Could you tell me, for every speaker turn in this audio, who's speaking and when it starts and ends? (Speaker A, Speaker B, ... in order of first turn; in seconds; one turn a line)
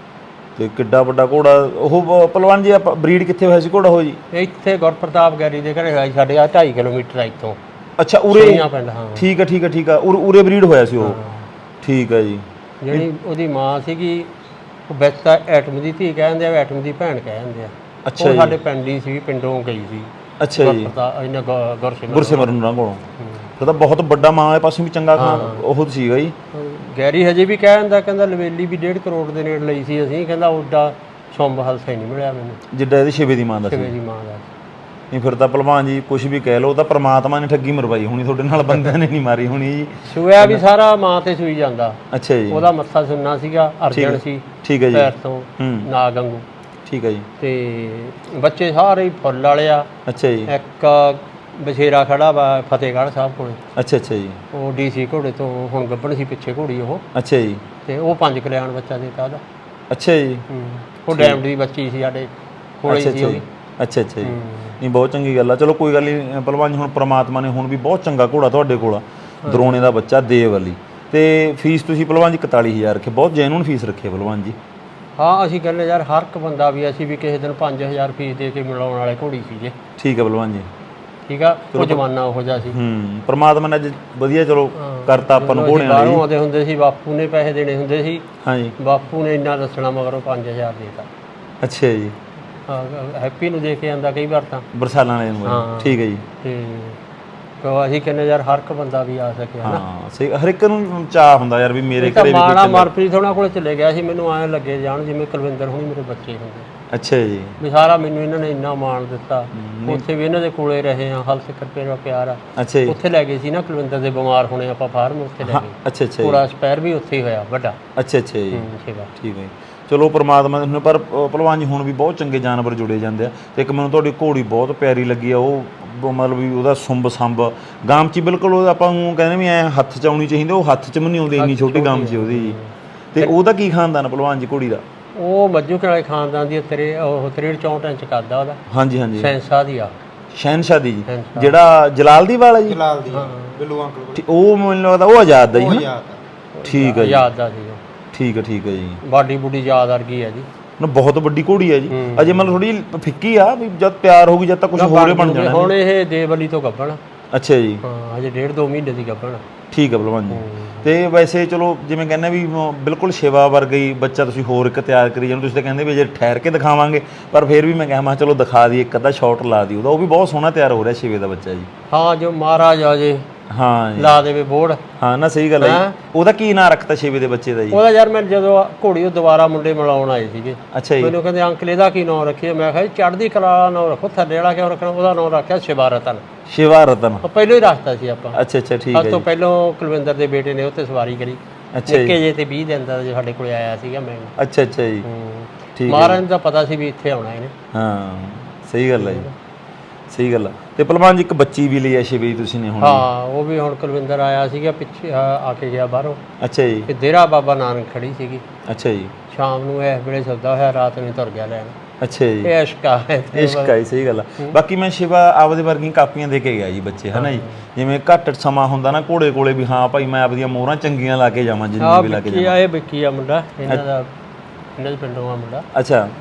Speaker A: 0.6-4.2
Speaker B: 4.3-7.6
Speaker A: 8.0-11.2
Speaker B: 8.3-9.2
Speaker B: 11.0-11.5
Speaker A: 11.8-13.1
Speaker B: 12.8-14.3
Speaker B: 14.9-22.5
Speaker A: 18.1-18.6
Speaker A: 20.4-20.9
Speaker A: 22.1-23.0
Speaker B: 23.2-23.4
Speaker A: 23.6-26.4
Speaker B: 25.1-25.6
Speaker B: 26.5-32.6
Speaker A: 32.7-33.9
Speaker B: 33.7-34.5
Speaker A: 35.1-40.6
Speaker B: 40.0-46.5
Speaker A: 42.1-42.7
Speaker A: 43.9-45.9
Speaker A: 46.9-47.3
Speaker B: 47.4-49.9
Speaker A: 50.0-50.5
Speaker B: 50.5-53.6
Speaker A: 53.8-54.4
Speaker B: 54.5-57.0
Speaker A: 57.1-57.6
Speaker B: 57.8-59.4
Speaker A: 59.9-60.5
Speaker B: 60.5-62.3
Speaker A: 61.1-61.4
Speaker B: 62.8-63.4
Speaker A: 62.9-74.6
Speaker B: 64.2-64.8
Speaker B: 69.4-69.8
Speaker B: 75.2-79.8
Speaker A: 80.0-80.7
Speaker B: 81.3-82.8
Speaker A: 81.7-82.0
Speaker A: 82.7-86.2
Speaker B: 84.7-88.2
Speaker A: 88.4-88.7
Speaker B: 88.8-91.1
Speaker A: 91.6-92.2
Speaker B: 92.7-94.7
Speaker A: 94.7-96.2
Speaker B: 95.4-97.0
Speaker B: 97.6-99.8
Speaker A: 99.6-102.9
Speaker B: 102.0-106.7
Speaker A: 106.9-107.6
Speaker B: 107.6-117.8
Speaker A: 109.5-110.0
Speaker A: 112.5-113.0
Speaker A: 115.4-116.4
Speaker A: 118.0-132.6
Speaker B: 118.5-119.1
Speaker B: 131.3-133.3
Speaker A: 133.1-134.8
Speaker B: 135.2-138.6
Speaker A: 138.7-139.3
Speaker B: 139.2-139.9
Speaker A: 140.3-142.8
Speaker B: 141.1-141.5
Speaker C: 142.7-144.2
Speaker B: 143.1-143.5
Speaker A: 144.2-145.9
Speaker C: 145.5-146.2
Speaker B: 146.6-147.8
Speaker A: 146.7-147.3
Speaker A: 148.1-149.0
Speaker B: 149.0-150.5
Speaker A: 150.8-155.7
Speaker B: 151.9-152.6
Speaker B: 154.8-157.0
Speaker A: 157.3-157.8
Speaker B: 157.8-159.4
Speaker A: 159.7-171.7
Speaker B: 160.3-160.9
Speaker B: 171.9-173.2
Speaker A: 173.5-174.2
Speaker B: 173.9-174.8
Speaker A: 175.0-177.8
Speaker B: 175.6-175.9
Speaker B: 177.7-186.2
Speaker A: 180.7-181.1
Speaker A: 186.5-187.2
Speaker B: 187.2-188.4
Speaker A: 188.3-189.2
Speaker B: 188.9-194.3
Speaker A: 191.7-192.2
Speaker A: 194.4-195.1
Speaker B: 195.0-197.5
Speaker A: 195.8-196.2
Speaker A: 197.7-199.3
Speaker B: 199.0-199.3
Speaker A: 200.1-203.1
Speaker B: 202.8-206.2
Speaker A: 206.4-206.9
Speaker B: 206.9-208.4
Speaker A: 208.7-209.1
Speaker B: 209.3-211.8
Speaker A: 212.0-212.5
Speaker B: 212.4-213.8
Speaker A: 213.3-222.6
Speaker B: 217.1-217.6
Speaker B: 221.8-224.1
Speaker B: 224.8-225.7
Speaker A: 225.7-226.1